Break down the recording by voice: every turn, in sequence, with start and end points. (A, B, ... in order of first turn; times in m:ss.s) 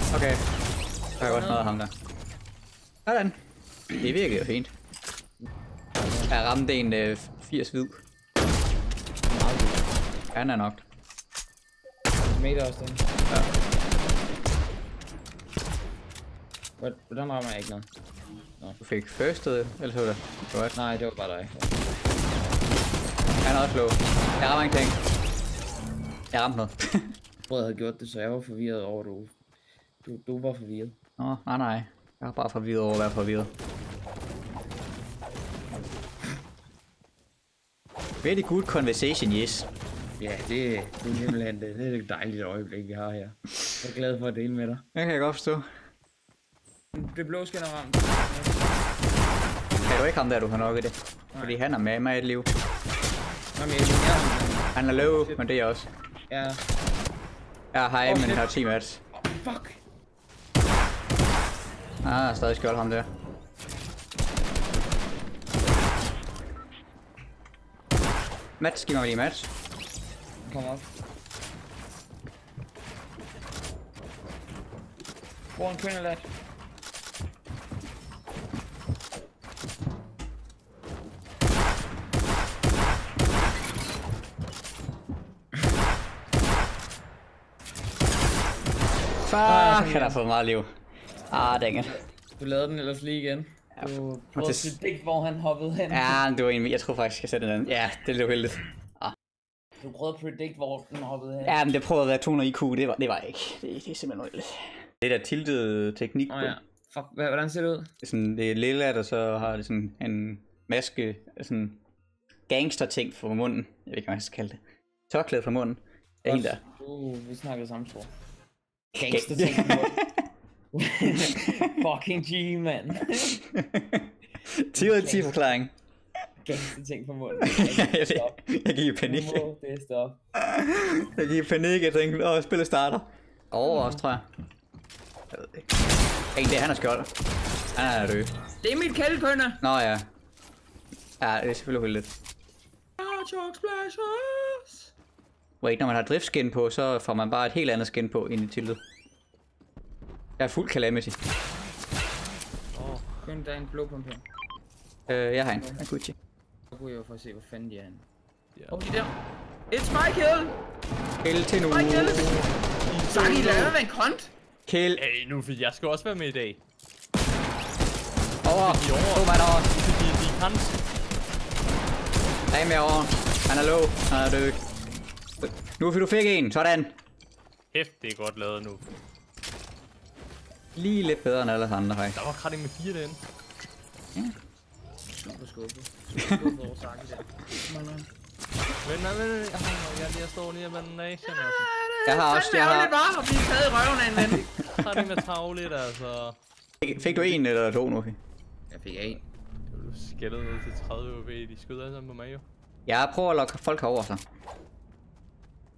0:00.1-0:00.4 A
0:01.2-0:01.9 A
0:01.2-0:01.7 B
0:03.0-0:03.4 A
0:03.9-0:04.7 A
0:06.0-0:06.3 B
0:06.3-0:08.0 A
0:09.4-0:09.9 B
0:10.3-0:10.8 A
0:12.3-0:13.1 B
0:16.8-0:17.9 B
0:18.8-0:20.7 A
0:20.7-0:21.8 B
0:23.4-0:25.0 A
0:26.3-0:27.1 A
0:27.5-0:29.4 B
0:30.0-0:31.0 B
0:31.2-0:33.5 A
0:38.2-0:39.7 A
0:40.2-0:44.8 B
0:45.0-0:45.6 A
0:46.9-0:48.8 B
0:49.9-0:52.5 A
0:51.3-0:51.6 B
0:53.5-0:55.4 B
0:54.8-0:55.9 A
0:56.3-0:56.6 B
0:57.7-0:59.0 A
0:58.0-0:58.5 B
0:59.1-0:59.8 B
1:02.0-1:03.1 A
1:08.6-1:09.5 A
1:10.5-1:10.9 B
1:15.6-1:16.3 B
1:29.2-1:30.7 A
1:29.4-1:30.2 B
1:31.3-1:32.0 A
1:32.4-1:36.2 B
1:34.4-1:34.8 A
1:35.9-1:39.1 A
1:39.8-1:41.6 B
1:41.4-1:46.5 A
1:46.3-1:47.9 B
1:48.0-1:51.8 A
1:52.5-1:56.6 A
1:56.2-1:58.1 B
1:59.0-2:00.2 A
1:59.0-2:00.0 B
2:00.7-2:03.4 B
2:01.2-2:01.7 A
2:03.2-2:05.7 A
2:04.8-2:05.4 B
2:06.4-2:08.4 B
2:07.4-2:09.5 A
2:09.0-2:10.2 B
2:10.4-2:14.3 A
2:15.3-2:15.7 A
2:16.4-2:17.1 A
2:17.8-2:18.3 A
2:18.6-2:19.6 B
2:19.6-2:20.0 A
2:21.2-2:22.1 A
2:23.0-2:24.9 B
2:25.6-2:28.8 A
2:30.4-2:31.2 A
2:32.7-2:33.2 C
2:33.2-2:34.2 B
2:35.1-2:36.1 A
2:36.7-2:38.0 B
2:38.7-2:39.1 B
2:39.7-2:40.6 B
2:41.2-2:42.4 A
2:41.7-2:42.4 B
2:42.9-2:43.7 C
2:43.0-2:44.3 B
2:44.7-2:45.0 A
2:45.0-2:46.6 C
2:48.4-2:49.7 A
2:48.6-2:50.8 C
2:52.5-2:54.6 A
2:55.4-2:57.0 A
2:57.7-2:58.9 C
3:00.8-3:02.2 A
3:02.1-3:03.2 C
3:05.1-3:08.1 B
3:08.8-3:11.7 C
3:11.3-3:14.7 B
3:12.0-3:12.9 A
3:14.6-3:16.4 C
3:14.8-3:15.1 A
3:16.8-3:18.2 A
3:16.9-3:17.4 C
3:18.7-3:19.2 B
3:19.7-3:22.4 C
3:22.9-3:24.2 A